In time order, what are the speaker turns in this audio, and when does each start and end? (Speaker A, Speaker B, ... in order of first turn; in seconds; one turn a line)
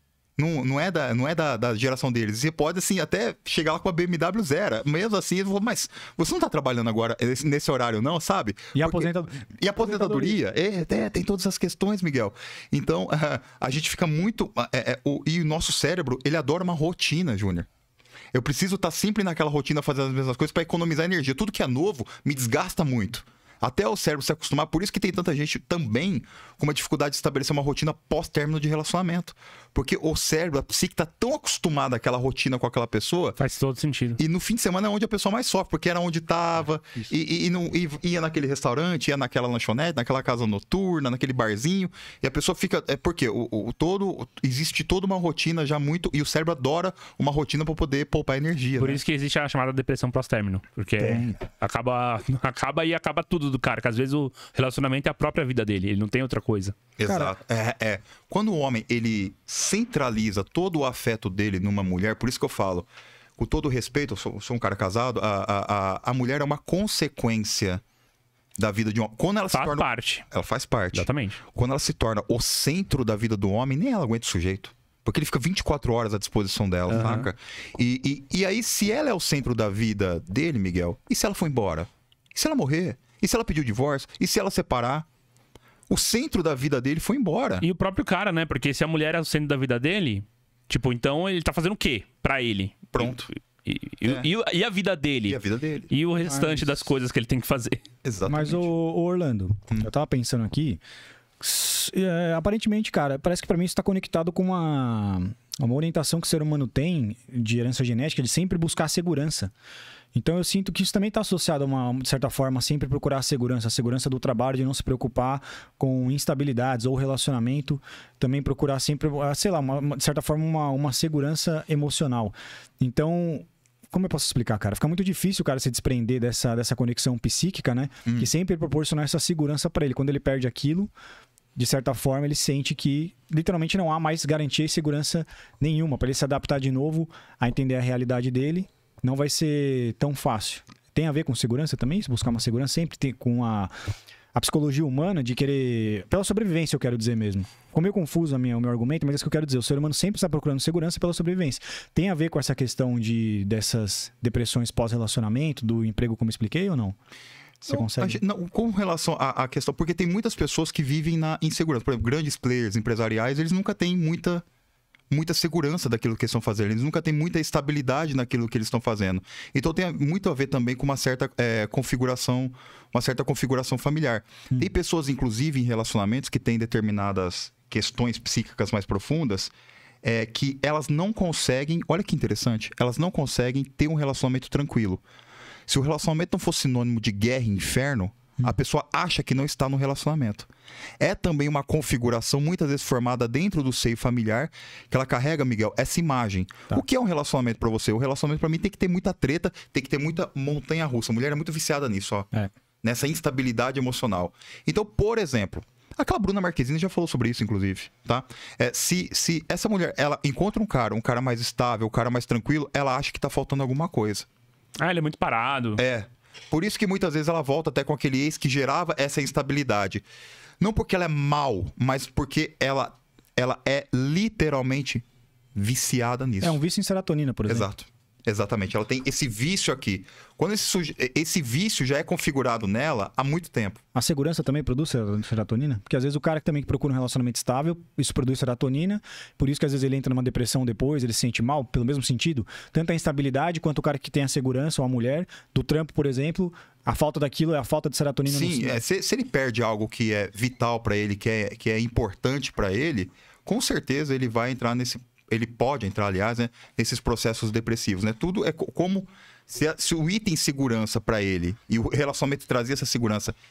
Speaker A: 0.4-17.7
Speaker B: 8.8-10.4
Speaker A: 18.3-33.4
Speaker C: 33.4-34.2
Speaker A: 34.2-49.0
Speaker C: 48.8-56.8
Speaker A: 57.0-67.8
Speaker B: 57.1-57.3
Speaker A: 68.6-85.1
Speaker C: 69.5-70.3
Speaker C: 70.9-71.4
Speaker C: 76.9-77.3
Speaker A: 85.9-87.7
Speaker C: 87.6-95.4
Speaker A: 92.9-93.3
Speaker A: 95.2-95.9
Speaker C: 95.9-97.8
Speaker B: 96.3-96.7
Speaker A: 98.0-98.7
Speaker B: 98.3-100.8
Speaker B: 101.4-109.5
Speaker B: 110.1-130.9
Speaker B: 131.6-143.7
Speaker B: 144.3-157.0
Speaker B: 157.6-158.2
Speaker A: 157.7-164.4
Speaker A: 165.1-179.5
Speaker A: 180.0-185.0
Speaker A: 185.7-190.5
Speaker A: 191.0-202.3
Speaker A: 202.8-214.3
Speaker C: 214.8-215.8
Speaker A: 215.8-220.0
Speaker A: 220.6-225.0
Speaker A: 225.6-226.6
Speaker B: 226.4-227.7
Speaker A: 227.5-233.8
Speaker B: 233.9-248.8
Speaker A: 248.3-263.4